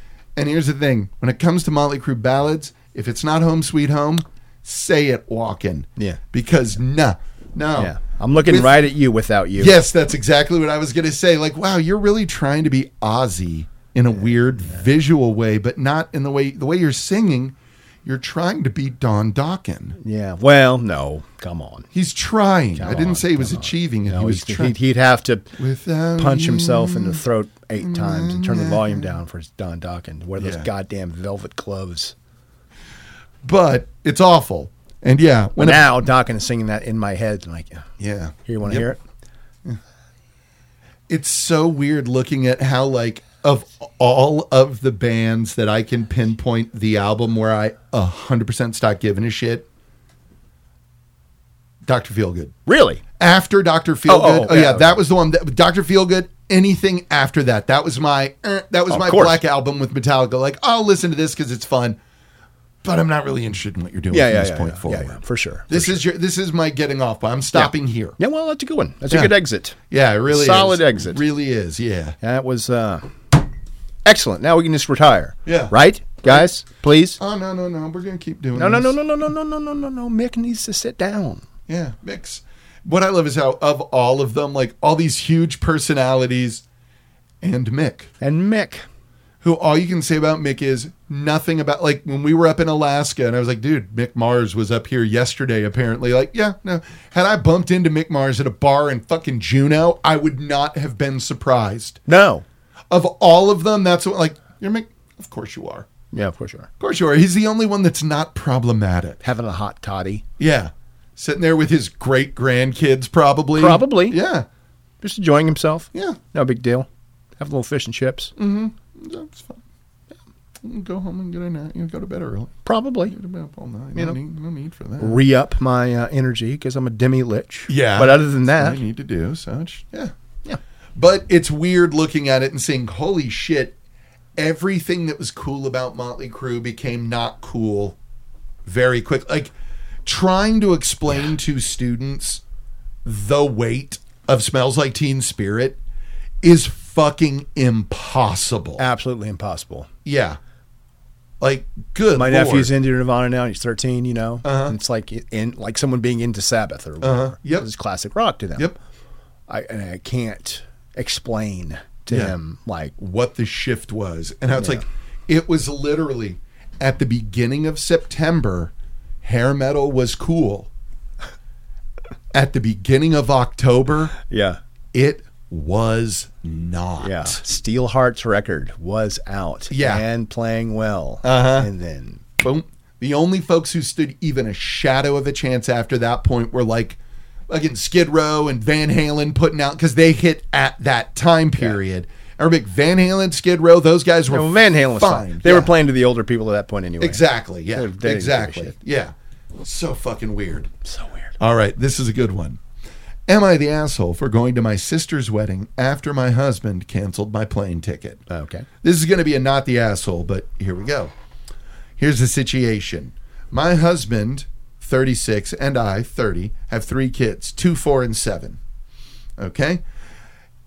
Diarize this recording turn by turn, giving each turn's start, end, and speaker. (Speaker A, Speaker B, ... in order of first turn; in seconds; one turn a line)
Speaker A: 0.4-8.8
Speaker B: 7.8-9.8
Speaker A: 9.6-20.0
Speaker B: 14.5-14.8
Speaker B: 20.0-21.9
Speaker A: 21.9-24.8
Speaker B: 22.8-25.5
Speaker A: 25.6-27.2
Speaker B: 26.2-32.1
Speaker A: 27.8-29.2
Speaker A: 30.4-30.7
Speaker A: 33.4-36.0
Speaker B: 35.6-37.9
Speaker A: 38.0-38.9
Speaker B: 38.5-39.0
Speaker A: 41.1-49.7
Speaker A: 51.9-52.5
Speaker B: 52.7-53.0
Speaker A: 53.2-62.0
Speaker B: 54.1-55.0
Speaker B: 58.9-59.4
Speaker A: 62.8-68.2
Speaker B: 64.1-66.0
Speaker B: 67.5-71.2
Speaker A: 69.9-72.2
Speaker B: 72.2-73.1
Speaker B: 74.0-77.2
Speaker A: 75.5-76.5
Speaker A: 77.2-79.0
Speaker B: 78.5-81.4
Speaker A: 81.7-86.6
Speaker A: 87.4-88.1
Speaker B: 88.2-88.9
Speaker A: 89.4-102.0
Speaker B: 102.1-102.5
Speaker A: 102.9-105.9
Speaker B: 106.1-106.7
Speaker A: 106.8-109.2
Speaker B: 109.2-110.2
Speaker A: 110.4-114.5
Speaker B: 113.6-114.2
Speaker B: 115.0-116.9
Speaker A: 115.9-116.2
Speaker B: 117.4-118.3
Speaker A: 118.4-119.6
Speaker A: 120.6-122.5
Speaker B: 122.7-123.2
Speaker A: 123.0-125.2
Speaker B: 125.0-128.8
Speaker A: 127.7-130.1
Speaker A: 131.0-133.8
Speaker A: 134.4-138.0
Speaker A: 138.7-139.5
Speaker A: 140.1-142.4
Speaker A: 143.1-145.8
Speaker A: 146.4-148.9
Speaker B: 148.8-149.9
Speaker A: 150.1-150.4
Speaker A: 151.4-152.7
Speaker B: 152.2-158.7
Speaker A: 154.4-154.8
Speaker A: 157.0-157.7
Speaker B: 159.5-162.9
Speaker A: 162.1-162.4
Speaker A: 163.0-168.7
Speaker B: 164.6-164.8
Speaker A: 169.2-170.7
Speaker A: 172.3-174.2
Speaker B: 174.3-174.6
Speaker A: 174.9-177.4
Speaker B: 177.0-182.2
Speaker A: 179.7-180.1
Speaker A: 181.2-181.7
Speaker A: 182.4-195.7
Speaker B: 194.3-198.8
Speaker A: 197.0-200.7
Speaker B: 200.9-201.3
Speaker A: 201.4-202.6
Speaker A: 203.3-208.2
Speaker B: 208.3-208.7
Speaker A: 208.8-211.1
Speaker A: 212.0-218.6
Speaker A: 219.4-219.8